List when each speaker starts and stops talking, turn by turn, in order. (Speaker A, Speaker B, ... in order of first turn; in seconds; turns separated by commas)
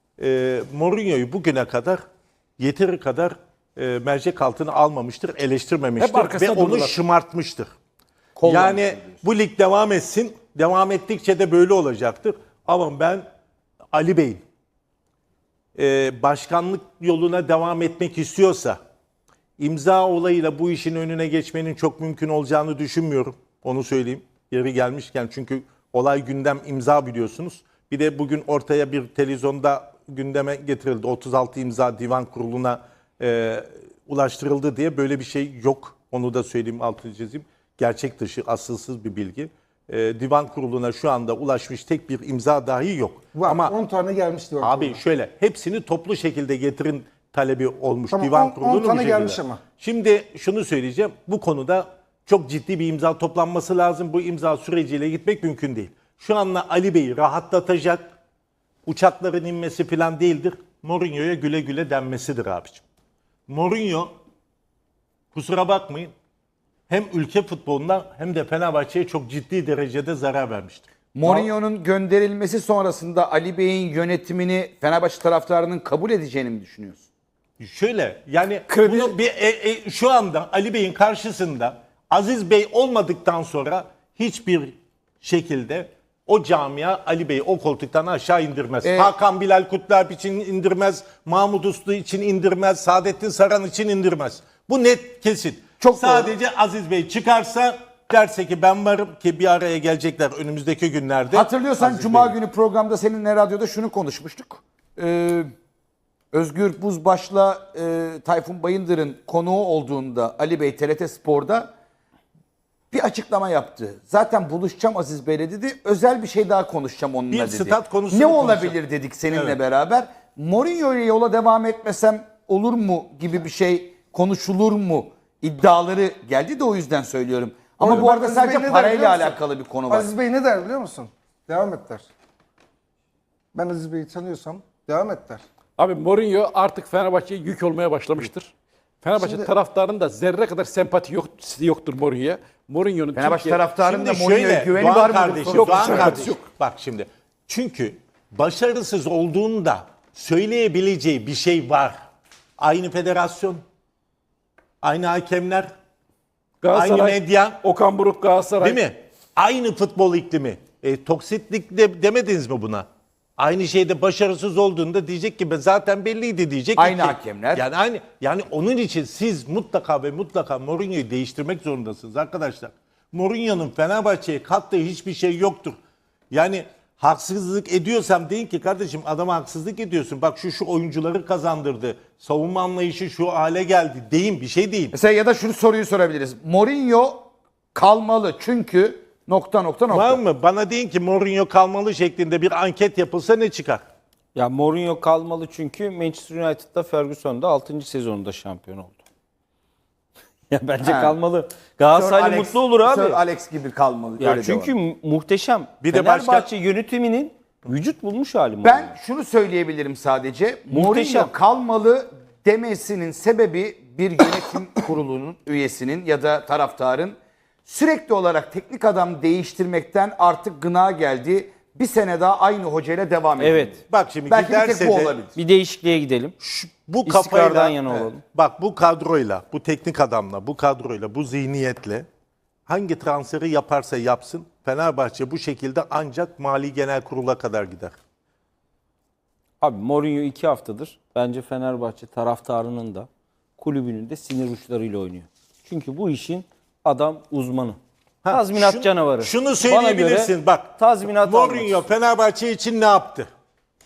Speaker A: 0.2-2.0, Speaker A: 2.6-7.7, Speaker B: 6.0-6.9, Speaker C: 8.4-9.2, Speaker A: 8.4-13.3, Speaker A: 13.9-14.4, Speaker A: 15.8-18.8, Speaker A: 19.6-43.8, Speaker D: 43.3-45.0, Speaker A: 44.6-58.1, Speaker D: 48.1-49.6, Speaker A: 58.9-62.8, Speaker A: 63.5-64.1, Speaker A: 65.3-66.1, Speaker A: 66.9-71.5, Speaker C: 71.1-77.0, Speaker A: 77.6-102.3, Speaker C: 78.7-79.1, Speaker C: 88.8-89.1, Speaker C: 95.8-96.3, Speaker C: 101.3-105.5, Speaker C: 106.3-111.7, Speaker C: 112.9-130.1, Speaker A: 117.3-118.8, Speaker A: 119.3-119.6, Speaker D: 127.8-132.1, Speaker D: 133.5-135.4, Speaker B: 135.8-143.6, Speaker D: 139.2-139.5, Speaker C: 143.1-146.3, Speaker A: 143.8-152.0, Speaker B: 145.4-146.4, Speaker A: 152.6-153.6, Speaker A: 154.8-155.7, Speaker B: 156.6-158.8, Speaker A: 156.7-157.6, Speaker A: 158.6-162.8, Speaker A: 163.4-175.8, Speaker C: 166.8-167.6, Speaker A: 176.3-184.9, Speaker C: 184.9-190.2, Speaker A: 189.9-193.8, Speaker E: 194.3-199.0, Speaker E: 200.5-203.2, Speaker C: 200.8-201.2, Speaker C: 201.9-204.7, Speaker E: 204.2-208.9, Speaker A: 205.8-206.5, Speaker C: 208.6-225.3, Speaker E: 210.7-211.3, Speaker E: 223.4-223.8, Speaker A: 223.9-225.2, Speaker E: 225.3-226.3, Speaker A: 226.4-227.8, Speaker E: 227.1-228.2, Speaker C: 227.2-228.1, Speaker A: 228.3-232.1, Speaker A: 232.7-237.9, Speaker E: 239.6-243.1, Speaker E: 243.6-247.8, Speaker A: 248.2-253.3, Speaker E: 248.3-251.9